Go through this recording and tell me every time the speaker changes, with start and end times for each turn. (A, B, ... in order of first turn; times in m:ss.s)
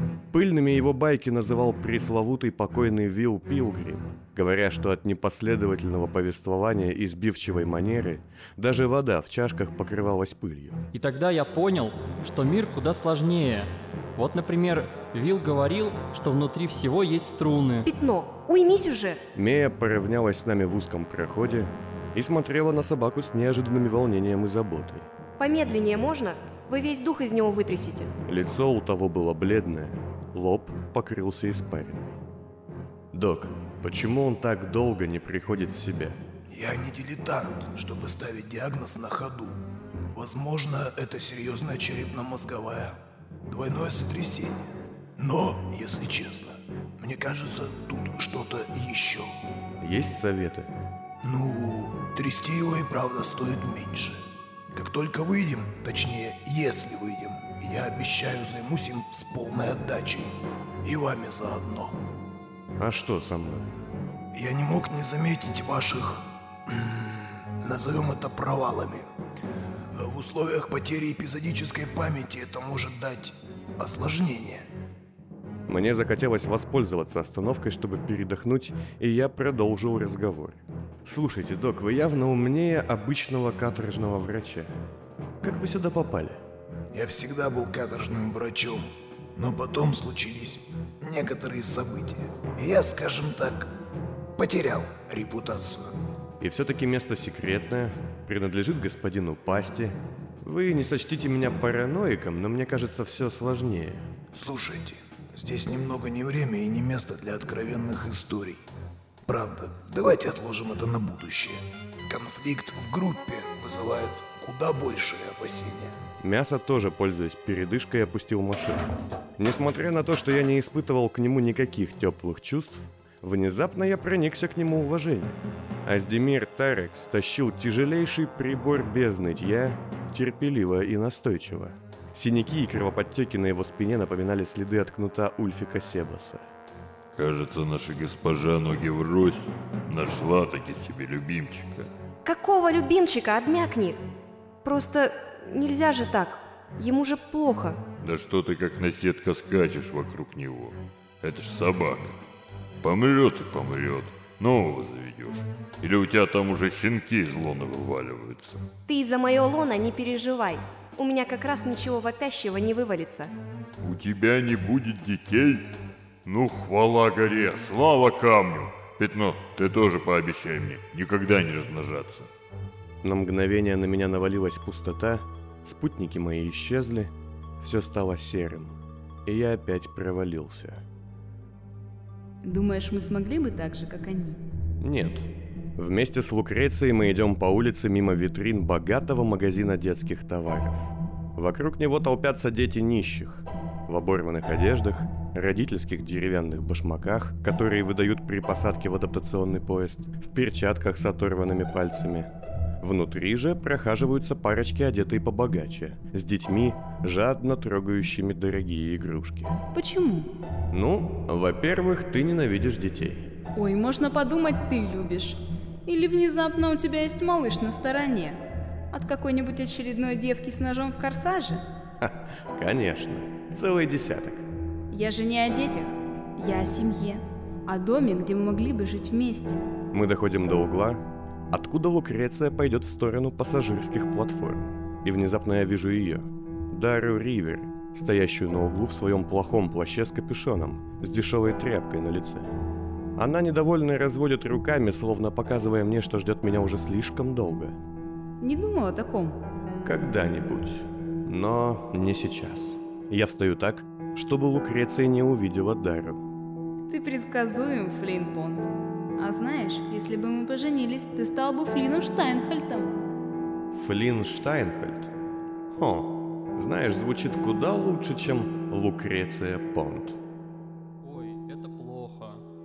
0:00.3-0:10.8 A
0:10.9-0:17.9 B
0:17.8-0:19.2 C
0:19.3-0:25.1 A
0:25.4-0:28.1 C
0:28.2-0:32.2 A
0:33.1-0:36.2 A
0:36.5-0:39.6 D
0:40.1-0:44.6 D
0:45.2-0:49.3 D
0:49.8-0:50.7 A
0:51.2-1:00.3 D
1:00.8-1:02.0 D
1:02.8-1:03.8 A
1:04.3-1:09.1 D
1:09.9-1:14.7 D
1:15.7-1:24.7 A
1:25.4-1:26.4 A
1:26.9-1:28.8 D
1:29.4-1:33.7 D
1:34.4-1:36.0 D
1:36.4-1:44.1 A
1:44.3-1:48.6 D
1:49.2-1:56.0 D
1:56.2-2:16.4 A
2:17.1-2:21.9 E
2:22.2-2:24.0 C
2:24.6-2:27.8 C
2:28.0-2:32.2 E
2:32.8-2:38.6 E
2:38.9-2:43.3 C
2:43.8-2:45.7 E
2:46.2-2:52.3 E
2:53.0-3:00.8 A
3:02.4-3:04.4 F
3:04.8-3:22.3 A
3:22.8-3:29.6 A
3:29.7-3:30.3 F
3:30.7-3:33.3 A
3:33.6-3:41.6 F
3:42.0-3:44.4 A
3:44.9-3:49.6 F
3:49.9-4:02.5 A
4:03.2-4:07.8 A
4:08.4-4:09.4 F
4:09.8-4:16.2 A
4:16.9-4:22.9 F
4:23.7-4:25.1 A
4:25.7-4:30.2 A
4:31.0-4:32.4 B